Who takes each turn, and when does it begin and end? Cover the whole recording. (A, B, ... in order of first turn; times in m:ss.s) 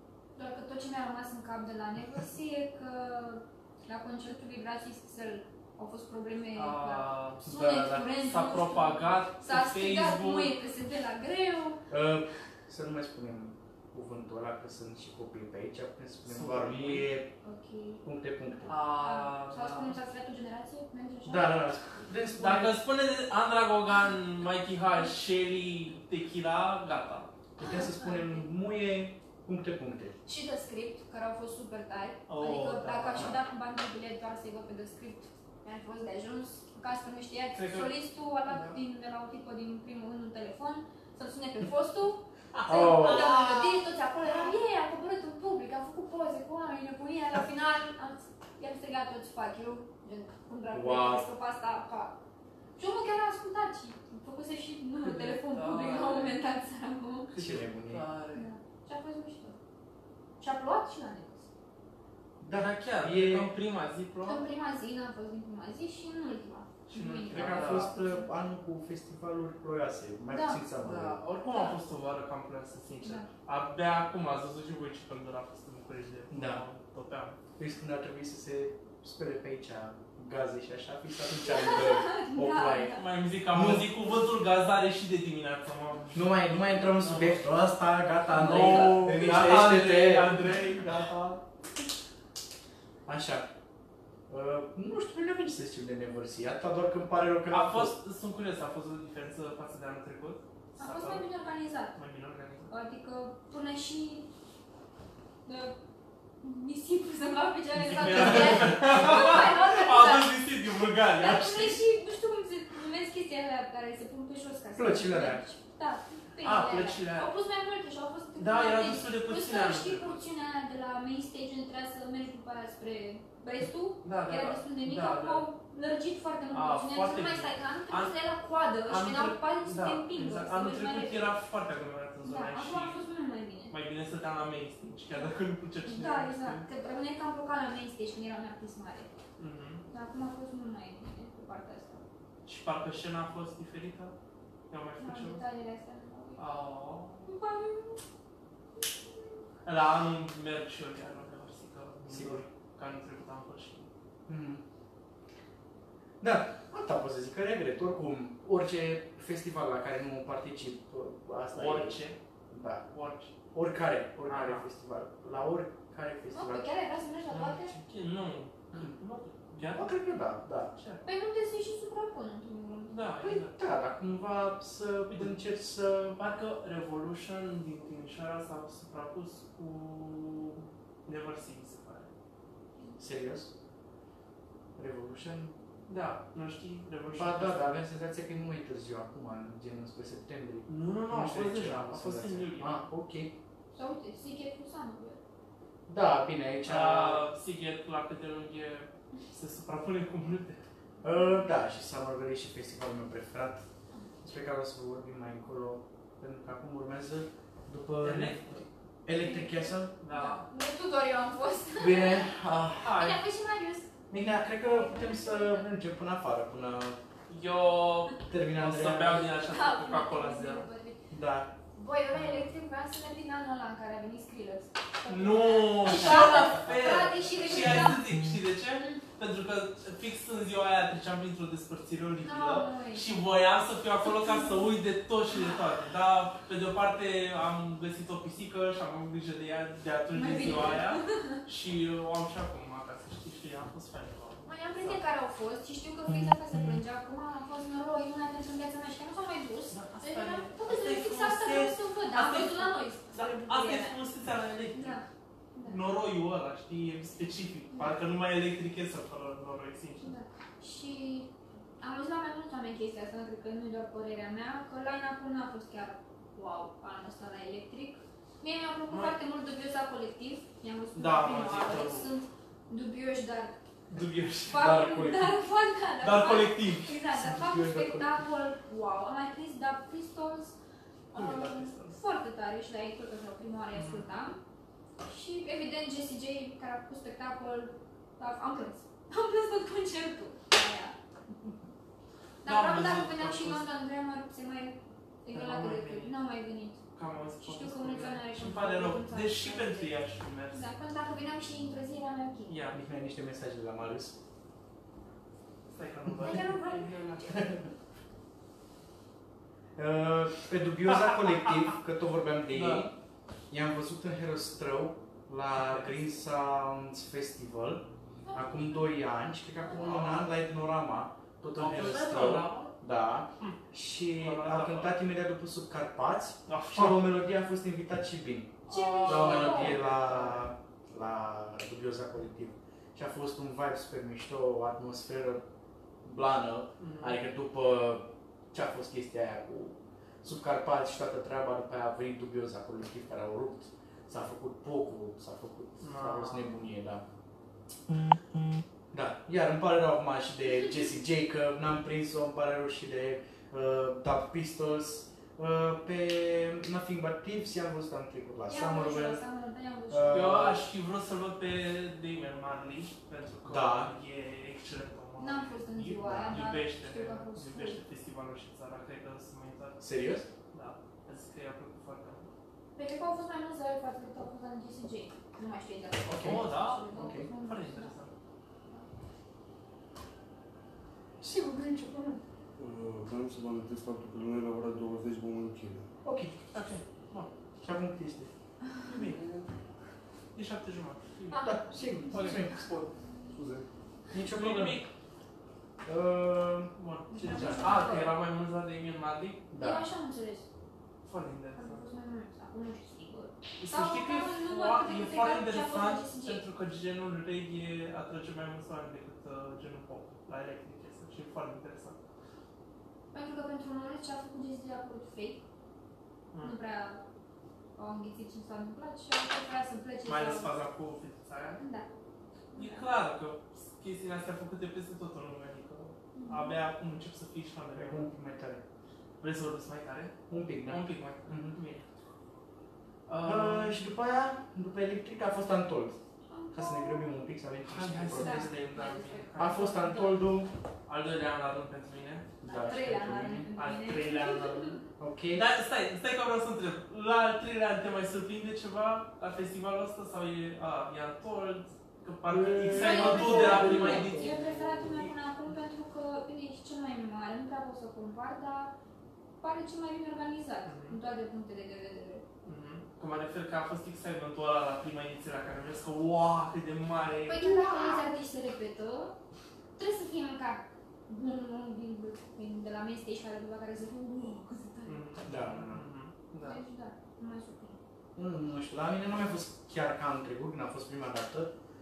0:00.4-0:11.8 A
0:06.5-0:07.4 B
0:07.4-0:08.1 C
0:08.2-0:10.5 B
0:11.9-0:17.3 C
0:16.2-0:17.1 B
0:17.4-0:18.0 A
0:18.0-0:18.8 C
0:18.6-0:21.6 A
0:18.7-0:20.0 B
0:21.2-0:22.8 C
0:22.4-0:27.3 B
0:27.6-0:30.2 C
0:30.2-0:52.2 A
0:32.3-0:33.3 B
0:37.5-0:37.9 B
0:38.5-0:38.8 B
0:42.5-0:44.5 B
0:42.7-0:43.3 C
0:50.7-0:51.2 C
0:52.8-0:57.3 A
0:55.0-0:56.4 B
0:57.3-0:58.5 B
0:57.4-0:58.0 C
0:58.3-0:59.6 A
1:00.4-1:01.5 A
1:02.4-1:03.5 C
1:02.5-1:04.4 B
1:04.2-1:08.3 A
1:06.9-1:07.9 B
1:07.3-1:11.2 C
1:10.3-1:10.6 A
1:10.8-1:17.4 B
1:11.5-1:11.8 A
1:13.0-1:13.3 A
1:16.3-1:16.6 C
1:17.6-1:23.0 C
1:21.4-1:23.0 A
1:23.0-1:27.4 B
1:23.5-1:23.9 C
1:26.1-1:30.5 C
1:28.3-1:31.4 B
1:28.4-1:29.0 A
1:33.0-1:33.5 C
1:34.3-1:37.9 C
1:37.5-1:41.2 B
1:40.8-1:42.0 A
1:41.9-1:42.7 B
1:42.7-1:44.3 A
1:45.4-1:45.8 A
1:46.4-1:50.4 A
1:47.8-1:51.8 B
1:51.0-2:11.3 A
1:54.8-1:55.4 C
1:56.4-1:57.3 B
1:58.4-2:00.2 B
2:04.0-2:05.5 B
2:06.5-2:08.1 B
2:08.9-2:13.0 B
2:12.2-2:13.7 A
2:13.7-2:16.6 B
2:15.8-2:19.2 A
2:19.4-2:19.8 B
2:19.9-2:22.0 A
2:22.4-2:24.1 B
2:24.7-2:25.4 B
2:25.0-2:26.4 A
2:26.4-2:27.3 B
2:27.2-2:28.0 A
2:29.6-2:33.9 B
2:32.1-2:32.4 C
2:34.3-2:34.6 C
2:36.2-2:42.0 C
2:41.5-2:42.2 B
2:42.5-2:42.9 C
2:42.9-2:43.3 B
2:43.5-2:46.6 C
2:44.3-2:44.6 B
2:46.3-2:47.8 A
2:47.3-2:49.9 B
2:49.6-2:50.7 C
2:50.7-2:51.0 B
2:51.0-2:53.0 A
2:52.9-2:53.6 B
2:53.2-2:56.2 C
2:55.1-2:55.3 B
2:56.2-3:02.1 B
3:03.0-3:03.5 C
3:04.8-3:05.5 C
3:05.9-3:07.8 B
3:07.1-3:13.3 C
3:10.7-3:12.8 B
3:13.7-3:15.2 A
3:15.9-3:17.2 C
3:16.6-3:20.6 B
3:21.0-3:23.6 C
3:24.2-3:29.9 C
3:28.0-3:28.7 B
3:29.2-3:32.3 A
3:30.0-3:30.4 B
3:31.8-3:33.0 C
3:32.8-3:33.2 B
3:32.9-3:33.9 A
3:34.1-3:37.0 C
3:34.6-3:35.6 A
3:37.3-3:40.7 B
3:38.2-3:39.3 C
3:39.3-3:41.0 A
3:41.1-3:41.5 C
3:41.7-3:48.1 A
3:45.1-4:05.0 B
3:48.8-3:49.0 A
3:52.2-3:53.0 A
3:54.2-3:54.5 A
3:55.3-3:55.6 A
4:00.1-4:01.4 A
4:04.4-4:14.0 A
4:09.7-4:15.0 B
4:14.7-4:15.8 A
4:15.6-4:20.1 B
4:17.7-4:18.0 A
4:20.0-4:21.3 A
4:21.8-4:33.6 A
4:28.9-4:29.1 B
4:30.9-4:32.1 B
4:33.9-4:34.8 B
4:34.5-4:40.5 A
4:34.5-4:35.3 C
4:36.0-4:37.0 B
4:37.1-4:38.2 C
4:41.1-4:44.4 A
4:41.1-4:42.0 B
4:43.7-4:44.0 B
4:45.0-4:50.9 A
4:52.4-4:53.6 B
4:52.4-4:56.8 A
4:55.3-4:56.1 B
4:56.9-5:00.6 B
4:57.4-4:59.9 A
5:00.5-5:02.5 A
5:02.5-5:02.8 B
5:02.7-5:04.1 C
5:05.7-5:07.4 B
5:06.2-5:07.5 A
5:07.3-5:07.7 C
5:09.8-5:12.9 C
5:12.5-5:12.9 B
5:13.5-5:35.4 C
5:15.6-5:16.0 B
5:18.2-5:18.8 A
5:19.8-5:20.3 B
5:21.6-5:22.7 B
5:24.2-5:24.9 B
5:26.5-5:27.0 B
5:28.7-5:29.8 A
5:28.7-5:30.5 B
5:36.0-5:47.0 C
5:36.8-5:37.2 B
5:45.8-5:46.6 B
5:48.9-5:59.2 C
5:58.5-6:00.5 A
5:59.9-6:00.6 C
6:00.1-6:09.8 B
6:03.4-6:03.9 C
6:05.2-6:07.8 A
6:05.9-6:06.4 C
6:09.8-6:10.3 C
6:10.5-6:12.3 B
6:12.8-6:17.9 A
6:16.0-6:17.3 C
6:16.2-6:18.1 B
6:21.2-6:22.2 C
6:22.6-6:25.9 D
6:26.0-6:26.4 C
6:26.5-6:27.3 B
6:27.6-6:28.3 C
6:28.8-6:29.2 B
6:29.0-6:29.5 D
6:30.3-6:31.5 B
6:31.3-6:32.4 A
6:31.4-6:32.9 C
6:32.1-6:32.4 B
6:33.3-6:33.6 D
6:34.1-6:34.8 C
6:34.3-6:34.9 B
6:35.8-6:36.7 C
6:36.8-6:39.4 B
6:37.1-6:38.1 A
6:37.2-6:37.8 C
6:39.5-6:39.8 C
6:39.5-6:40.5 A
6:41.0-6:41.8 B
6:41.5-6:46.4 A
6:43.6-6:52.0 B
6:53.1-6:55.4 A
6:56.4-6:57.0 A
6:57.8-7:00.5 A
7:00.0-7:01.6 B
7:01.6-7:01.9 A
7:02.5-7:02.9 A
7:02.5-7:08.1 B
7:06.1-7:06.6 A
7:07.7-7:08.6 C
7:09.2-7:11.8 B
7:10.3-7:11.6 C
7:13.1-7:13.8 B
7:13.2-7:16.0 C
7:16.3-7:17.2 A
7:16.5-7:18.5 C
7:17.6-7:19.8 B
7:18.1-7:20.2 A
7:19.4-7:20.5 C
7:20.9-7:22.3 B
7:22.4-7:23.5 C
7:22.4-7:24.8 A
7:23.6-7:34.4 B
7:25.0-7:25.5 C
7:32.3-7:34.8 C
7:32.7-7:38.7 A
7:34.1-7:34.6 D
7:39.4-7:42.2 A
7:40.6-7:41.0 B
7:42.4-7:48.1 B
7:47.3-7:49.2 A
7:49.8-7:55.1 A
7:54.8-7:56.6 B
7:55.2-7:55.8 C
7:56.4-7:57.8 A
7:58.2-8:01.5 C